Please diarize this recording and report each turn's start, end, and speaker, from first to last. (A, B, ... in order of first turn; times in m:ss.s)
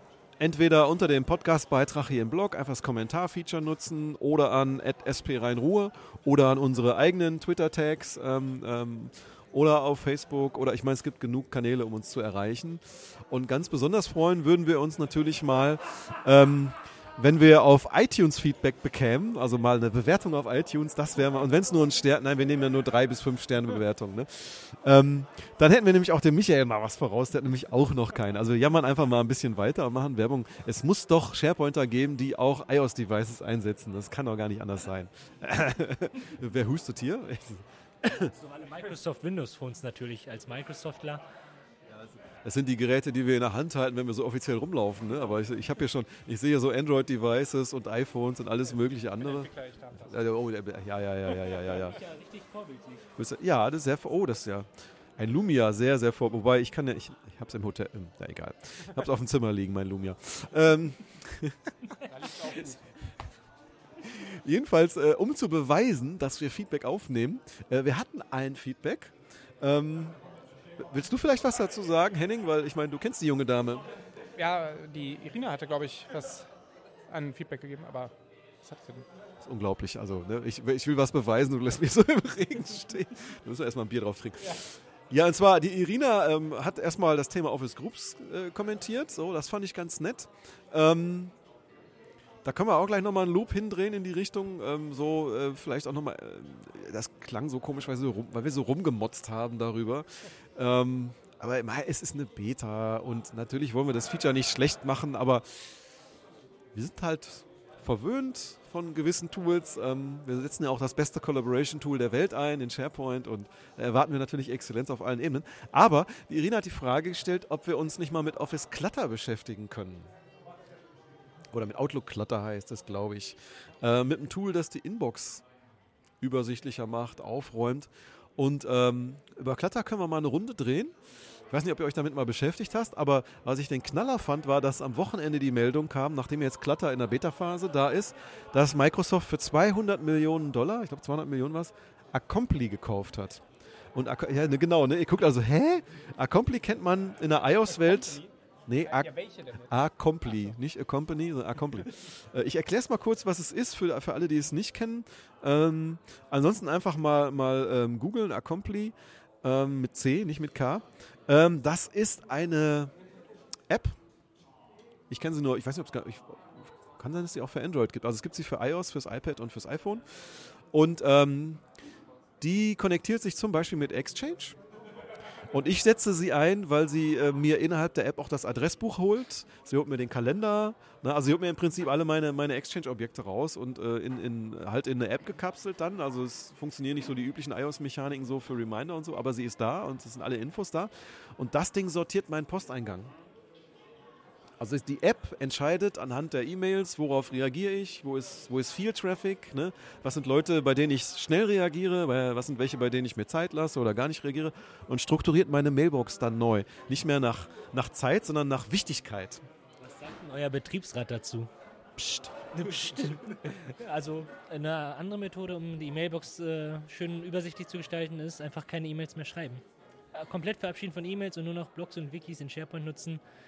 0:00.4-0:38.3 A
0:38.4-0:41.2 B
0:41.9-0:52.0 A
0:49.2-0:50.2 C
0:51.7-0:53.1 B
0:53.2-1:01.7 A
1:02.1-1:02.9 C
1:04.0-1:10.2 A
1:10.8-1:13.9 A
1:14.4-1:16.5 C
1:17.1-1:19.1 C
1:19.4-1:31.3 A
1:32.4-1:45.8 A
1:46.7-2:00.1 A
2:01.5-2:05.4 A
2:06.2-2:11.0 A
2:11.5-2:23.4 A
2:23.9-2:42.9 A
2:27.7-2:29.7 C
2:43.7-2:44.0 A
2:45.1-2:51.6 A
2:52.4-2:54.6 A
2:55.5-3:13.1 A
3:14.6-3:29.4 A
3:29.8-3:43.2 B